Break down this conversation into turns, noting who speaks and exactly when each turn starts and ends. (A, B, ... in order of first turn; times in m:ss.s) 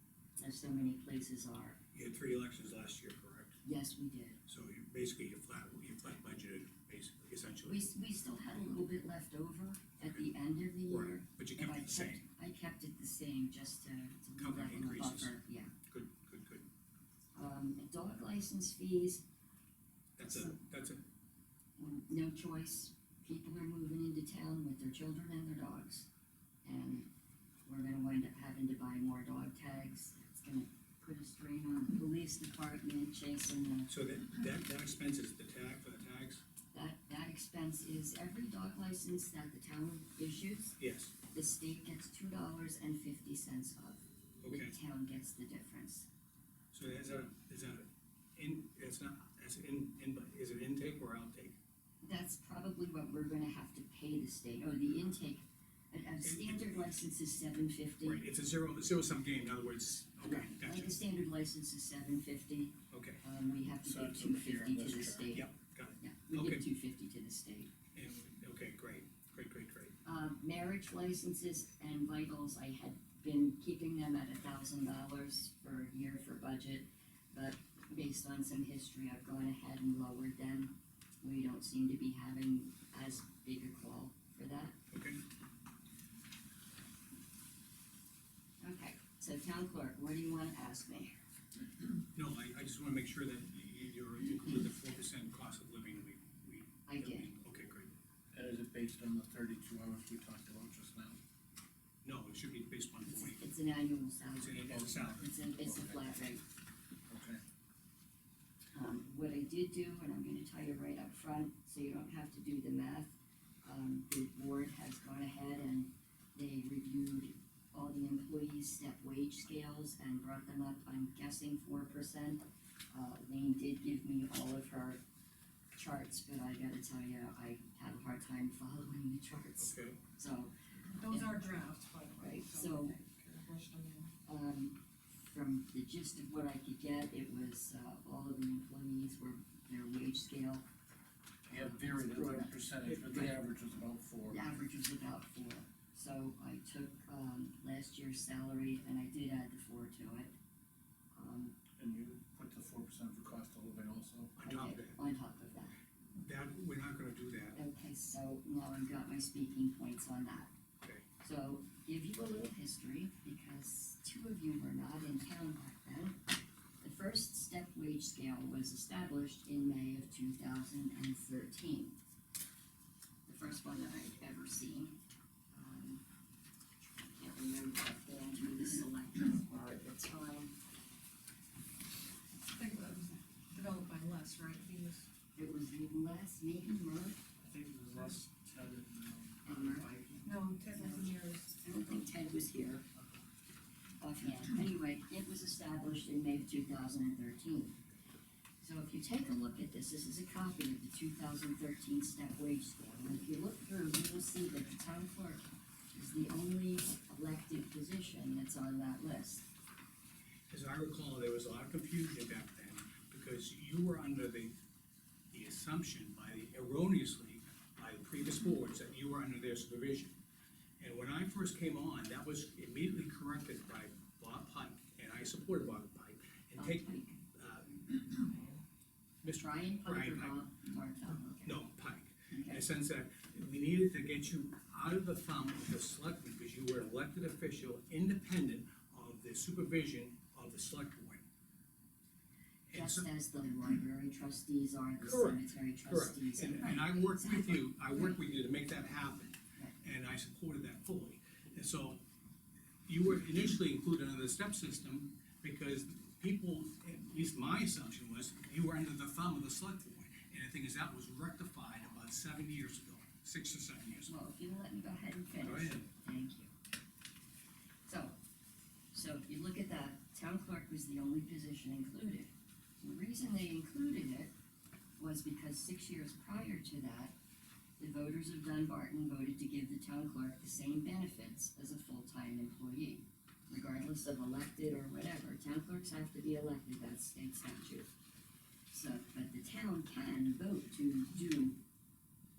0:00.4-0:01.8 A
0:01.9-0:03.6 B
0:03.6-0:04.4 A
0:04.5-0:07.8 B
0:07.6-0:15.7 A
0:10.9-0:12.2 B
0:14.4-0:15.3 B
0:15.9-0:16.7 B
0:17.3-0:19.2 A
0:20.2-0:21.0 B
0:20.2-0:20.6 A
0:21.8-0:26.1 A
0:26.6-0:27.1 A
0:27.6-0:33.9 A
0:33.9-0:36.4 B
0:36.7-0:40.8 A
0:40.8-0:41.1 B
0:41.3-0:46.1 A
0:44.4-0:44.8 B
0:46.7-0:51.6 B
0:52.0-0:58.2 A
0:56.2-0:56.8 B
0:58.0-1:01.0 B
1:00.2-1:05.5 A
1:02.9-1:03.2 B
1:03.8-1:05.4 C
1:05.3-1:06.6 B
1:06.0-1:07.7 A
1:07.9-1:09.9 B
1:10.0-1:24.8 A
1:24.9-1:25.2 B
1:28.6-1:31.1 A
1:32.1-1:37.9 B
1:36.8-1:37.3 A
1:38.3-1:41.2 C
1:42.0-1:43.4 B
1:43.0-1:46.4 A
1:44.3-1:45.2 B
1:44.7-1:46.2 C
1:47.1-1:47.4 C
1:48.7-2:05.0 A
2:05.7-2:11.3 A
2:09.6-2:10.0 B
2:11.0-2:14.1 D
2:12.2-2:13.0 A
2:14.2-2:20.6 A
2:21.5-2:24.4 C
2:21.5-2:23.3 A
2:24.3-2:30.3 A
2:31.1-2:31.6 A
2:31.8-2:34.3 C
2:34.4-2:35.0 B
2:34.4-2:35.8 A
2:36.1-2:37.6 B
2:37.5-2:40.5 A
2:41.2-2:46.2 A
2:46.8-2:52.0 A
2:53.2-2:55.0 A
2:55.5-2:56.0 A
2:57.0-3:00.5 A
3:02.5-3:05.1 D
3:05.3-3:07.3 A
3:07.4-3:10.2 C
3:09.4-3:11.1 A
3:10.2-3:11.9 D
3:11.6-3:12.8 A
3:14.0-3:17.8 A
3:18.6-3:29.4 A
3:30.5-3:34.5 B
3:35.3-3:40.2 B
3:40.8-3:48.4 B
3:46.6-3:47.2 A
3:49.2-3:50.4 B
3:49.2-3:51.6 A
3:51.4-4:01.2 B
3:52.3-3:52.6 A
4:02.7-4:03.1 B
4:02.7-4:08.2 A
4:05.0-4:12.0 B
4:12.9-4:24.1 B
4:23.9-4:26.5 A
4:25.4-4:25.8 B
4:27.8-4:28.2 A
4:28.9-4:34.3 A
4:35.0-4:37.1 A
4:37.8-4:47.9 A
4:48.7-4:51.6 A